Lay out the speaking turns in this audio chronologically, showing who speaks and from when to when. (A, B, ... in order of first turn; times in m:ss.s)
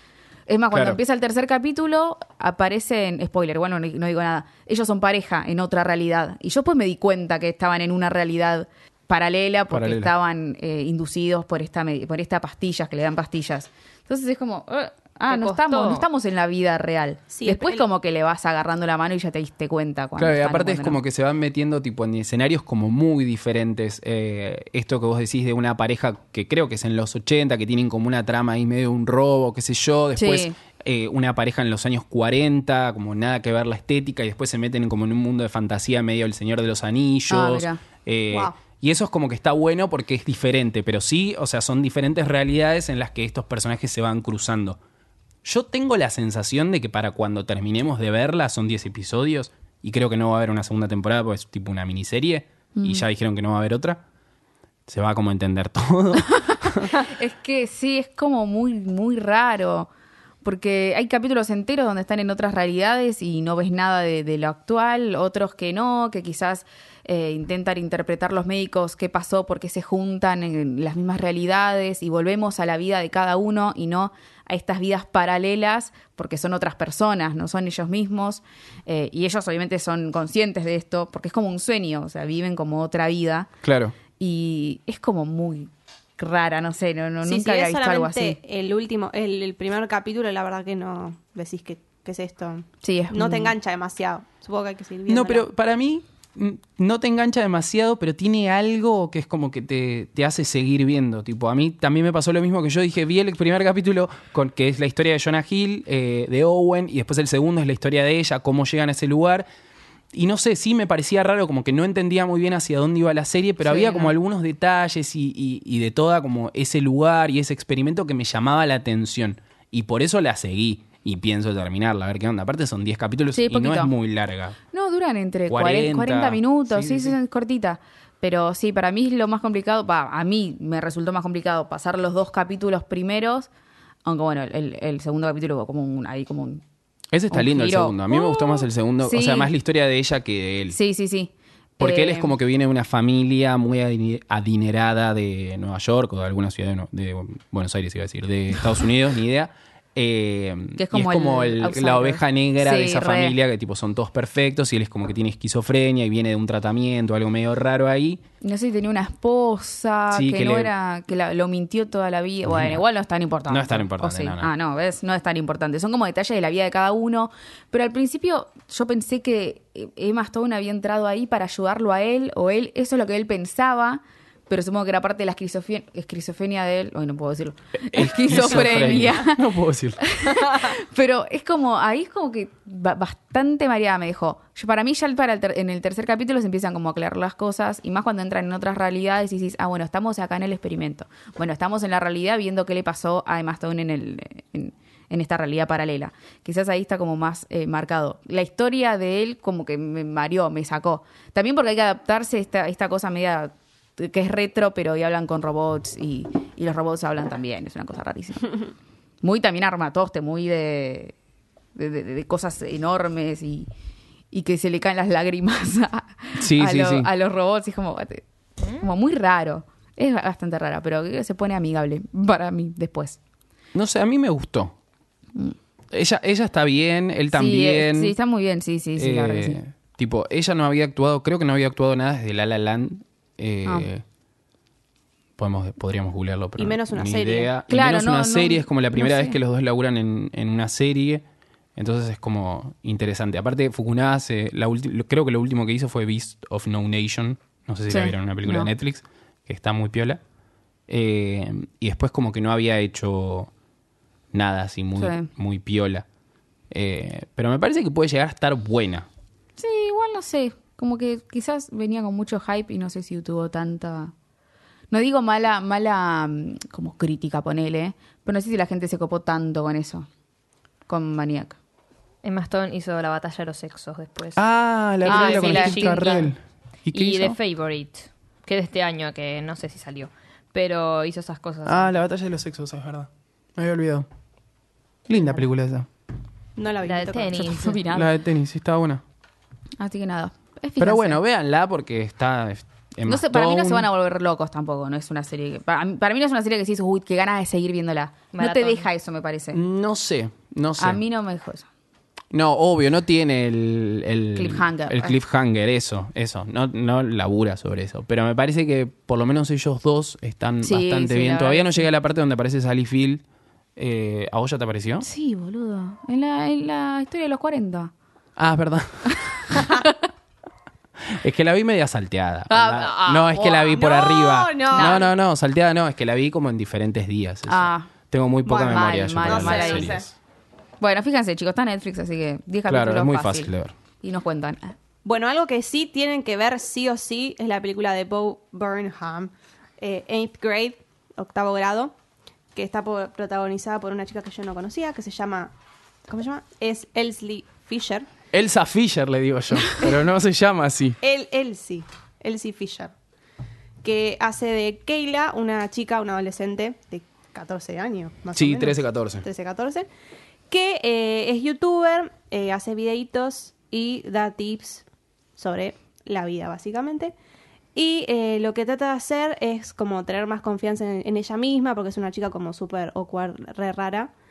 0:00.5-0:21.0 A
0:00.7-0:01.0 B
0:09.7-0:10.1 B
0:15.3-0:16.0 C
0:17.3-0:17.8 D
0:20.2-0:44.8 B
0:30.2-0:30.5 A
0:37.3-0:37.8 A
0:45.4-0:54.0 B
0:52.7-0:53.0 A
0:54.9-0:57.0 B
0:56.9-0:59.9 A
1:00.4-1:23.5 A
1:23.6-1:23.9 B
1:24.2-1:28.4 A
1:27.2-1:35.4 D
1:32.8-1:33.5 A
1:35.1-1:49.4 B
1:50.1-2:04.6 B
1:53.6-1:54.1 A
2:03.3-2:03.9 A
2:04.7-2:13.5 A
2:05.5-2:07.2 B
2:14.0-2:16.6 A
2:17.1-2:20.8 B
2:17.3-2:19.5 A
2:20.7-2:22.3 A
2:21.8-2:38.2 B
2:30.8-2:33.4 A
2:38.4-3:28.7 A
2:40.1-2:40.7 B
2:42.5-2:42.8 B
2:43.5-2:44.5 B
2:57.9-3:00.0 B
3:29.2-3:31.1 A
3:31.8-3:33.7 A
3:34.3-3:38.2 A
3:36.4-3:37.1 B
3:38.6-3:38.9 C
3:38.8-3:43.2 A
3:43.7-3:44.7 B
3:45.9-3:48.1 B
3:47.3-3:49.6 A
3:49.0-3:54.0 B
3:55.4-4:01.2 B
3:56.6-3:57.5 D
3:57.7-3:59.4 A
4:01.8-4:10.2 B
4:07.9-4:08.7 A
4:10.9-4:13.5 B
4:14.3-4:16.0 B
4:15.0-4:15.3 A
4:16.7-4:19.1 B
4:19.6-4:24.1 A
4:24.9-4:30.1 A
4:30.9-4:31.6 A
4:32.2-4:34.4 C
4:34.4-4:37.4 B
4:35.0-4:36.3 C
4:35.1-4:36.3 A
4:36.9-4:42.0 C
4:41.6-4:44.1 B
4:45.1-4:45.9 B
4:46.6-4:47.4 D
4:46.8-4:47.8 C
4:47.4-4:48.1 A
4:47.9-4:49.0 B
4:49.8-4:51.2 A
4:50.8-4:53.9 B
4:53.1-4:59.6 A
4:58.3-4:58.8 C
4:59.5-5:01.0 B
5:00.8-5:01.6 A
5:02.3-5:13.2 B
5:04.3-5:05.2 A
5:10.6-5:11.9 A
5:13.8-5:15.0 B
5:15.0-5:17.9 A
5:18.4-5:19.7 B
5:19.1-5:19.9 A
5:21.0-5:30.1 B
5:22.5-5:23.8 A
5:23.7-5:25.1 D
5:24.7-5:25.1 A
5:27.5-5:27.9 A
5:28.4-5:30.0 A
5:28.5-5:30.0 D
5:30.8-5:33.5 A
5:32.7-5:33.7 B
5:34.0-5:34.7 A
5:35.0-5:41.9 D
5:42.5-5:45.5 D
5:46.1-5:48.1 D
5:48.3-5:51.0 B
5:51.0-5:52.9 D
5:53.8-5:59.9 D
5:58.3-5:59.2 B
6:00.5-6:04.8 D
6:05.4-6:07.1 D
6:07.7-6:14.1 D